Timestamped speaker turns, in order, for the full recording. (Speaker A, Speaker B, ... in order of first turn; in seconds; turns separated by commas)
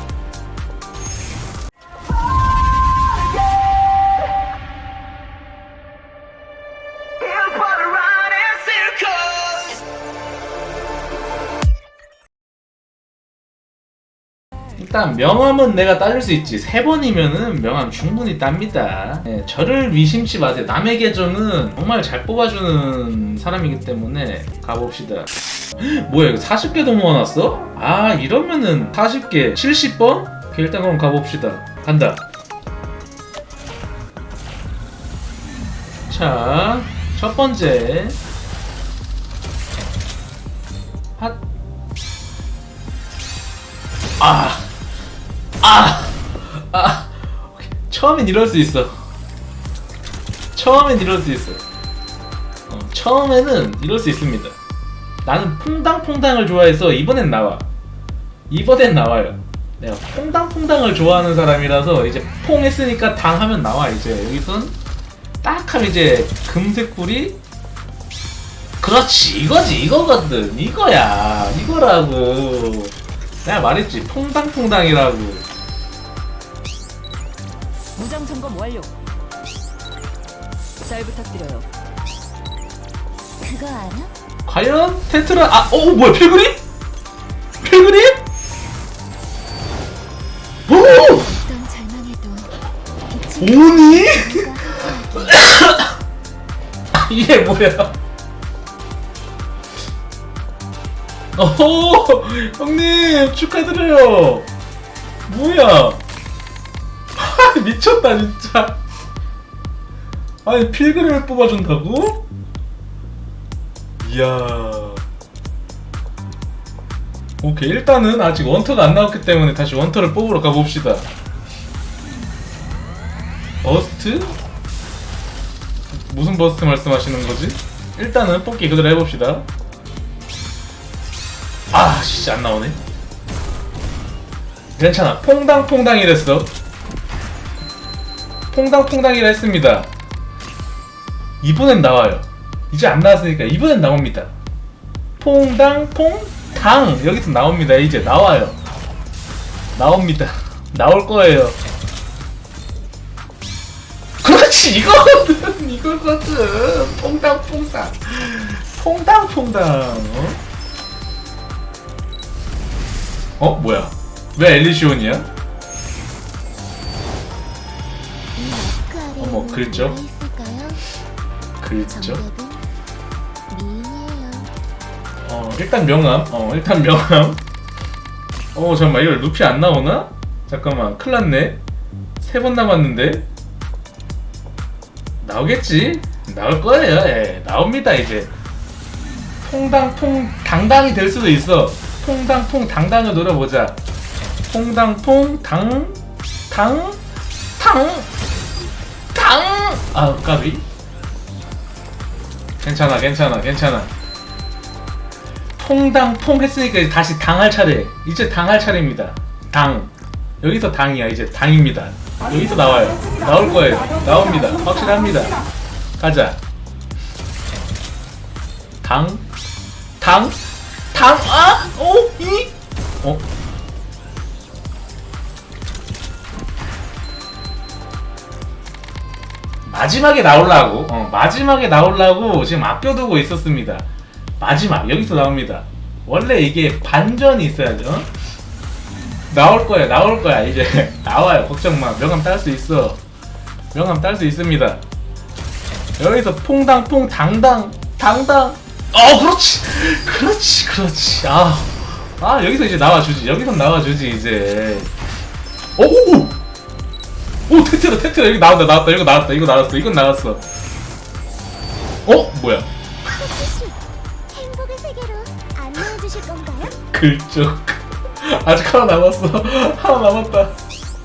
Speaker A: 7.4-9.2, Speaker B: 14.8-32.2, Speaker B: 36.1-38.2, Speaker B: 44.2-44.7, Speaker B: 45.6-49.0, Speaker B: 50.5-51.6, Speaker B: 52.7-54.6, Speaker B: 55.2-57.7, Speaker B: 58.5-64.8, Speaker B: 65.4-67.4, Speaker B: 68.8-75.5, Speaker A: 78.0-78.9, Speaker A: 80.8-81.7, Speaker C: 83.4-84.1, Speaker B: 84.5-86.6, Speaker B: 87.6-88.2, Speaker B: 90.7-91.2, Speaker C: 90.9-92.5, Speaker C: 93.1-95.4, Speaker B: 93.4-95.9, Speaker B: 96.9-98.0, Speaker B: 101.4-104.5, Speaker B: 105.3-106.0, Speaker B: 107.2-108.8, Speaker B: 110.5-112.3, Speaker B: 114.0-115.0, Speaker B: 117.4-121.1, Speaker B: 123.6-124.4, Speaker B: 125.9-129.5, Speaker B: 131.7-132.8, Speaker B: 134.8-136.5, Speaker B: 138.5-139.9, Speaker B: 141.4-144.3, Speaker B: 145.2-148.6, Speaker B: 149.8-151.6, Speaker B: 154.2-160.4, Speaker B: 163.4-165.3, Speaker C: 168.3-170.8, Speaker B: 169.2-170.0, Speaker B: 171.6-172.2, Speaker C: 171.9-172.6, Speaker C: 173.5-174.5, Speaker B: 175.2-177.4, Speaker B: 178.5-181.6, Speaker B: 182.2-183.3, Speaker B: 185.2-188.3, Speaker B: 189.4-193.8, Speaker B: 194.5-197.0, Speaker B: 197.6-198.1, Speaker B: 199.1-200.7, Speaker B: 202.6-203.9, Speaker B: 205.6-215.4, Speaker B: 216.0-216.4, Speaker B: 218.8-219.2, Speaker B: 220.0-220.4, Speaker B: 220.9-223.2, Speaker B: 229.7-233.9, Speaker B: 234.4-238.1, Speaker B: 239.3-243.0, Speaker B: 243.7-244.8, Speaker B: 246.0-254.9, Speaker B: 255.8-256.4, Speaker B: 257.5-260.4, Speaker B: 262.0-262.7, Speaker C: 263.1-266.8, Speaker B: 266.8-270.5